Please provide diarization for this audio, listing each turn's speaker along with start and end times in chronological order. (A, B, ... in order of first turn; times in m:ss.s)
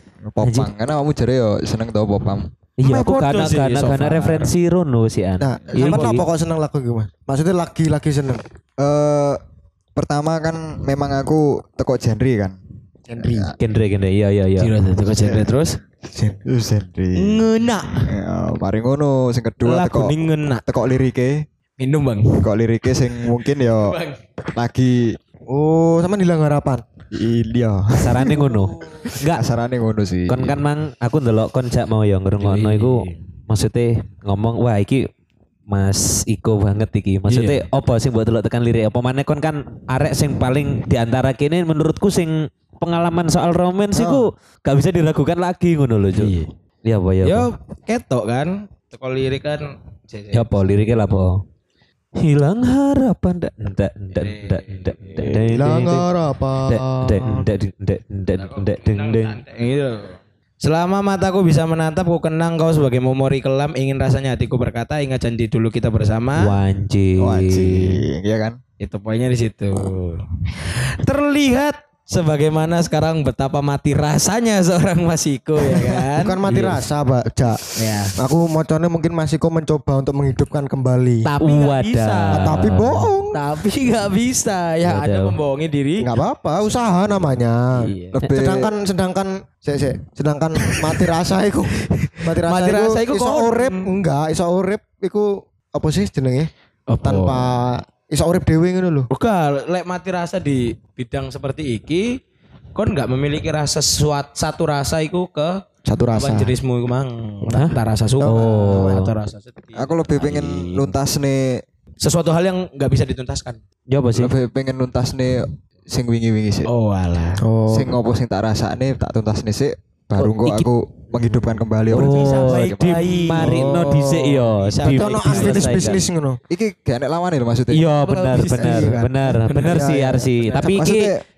0:00.3-0:02.5 A
0:00.4-0:00.7 B
0:02.8-0:06.2 B
0:02.8-0:04.5 C
0:05.4-0:08.4 D
0:05.7-0:06.1 A
0:08.8-0:09.4 A
0:10.0-0:12.6 A
0:13.1-0:13.5 D
0:13.2-0:13.6 A
0:13.6-0:14.7 B
0:14.6-0:15.8 C
0:16.1-0:21.5 A
0:17.2-0:18.1 C
0:19.6-0:20.6 C
0:21.8-0:22.5 C
0:22.4-0:24.0 A
0:23.2-0:24.2 C
0:24.5-0:25.2 A
0:25.5-0:26.8 D
0:27.1-0:30.6 A
0:28.0-0:29.4 B
0:30.3-0:35.1 B
0:32.4-0:33.2 C
0:35.7-0:46.3 B
0:37.3-0:37.6 C
0:46.2-0:46.5 C
0:46.8-0:47.5 B
0:47.2-0:50.6 C
0:50.3-0:51.4 B
0:52.2-0:56.1 B
0:54.2-0:55.5 C
0:55.5-0:57.5 D
0:56.7-0:59.4 B
0:58.4-1:06.6 C
1:06.4-1:08.0 B
1:07.2-1:08.6 A
1:08.8-1:16.6 C
1:16.1-1:17.6 D
1:16.5-1:16.8 B
1:17.8-1:18.2 C
1:18.2-1:21.3 D
1:21.2-1:22.8 C
1:21.4-1:23.1 B
1:22.3-1:23.4 D
1:23.3-1:26.1 C
1:24.8-1:25.4 B
1:26.0-1:36.5 D
1:27.8-1:28.2 C
1:28.1-1:28.8 A
1:31.9-1:33.9 C
1:36.9-1:37.6 C
1:37.0-1:39.1 D
1:39.1-1:42.2 C
1:42.8-1:50.9 C
1:45.9-1:46.5 D
1:47.5-1:49.1 B
1:48.2-1:49.0 D
1:49.8-1:51.6 A
1:52.0-1:53.6 C
1:53.9-1:54.3 B
1:54.2-1:56.7 A
1:56.7-1:57.4 C
1:57.4-1:58.0 D
1:57.7-2:03.1 A
2:00.2-2:00.7 B
2:01.9-2:06.1 B
2:01.9-2:06.0 C
2:03.4-2:03.9 D
2:04.8-2:06.4 D
2:06.5-2:07.9 A
2:07.7-2:11.1 B
2:08.1-2:09.9 C
2:08.5-2:10.3 D
2:10.6-2:11.2 A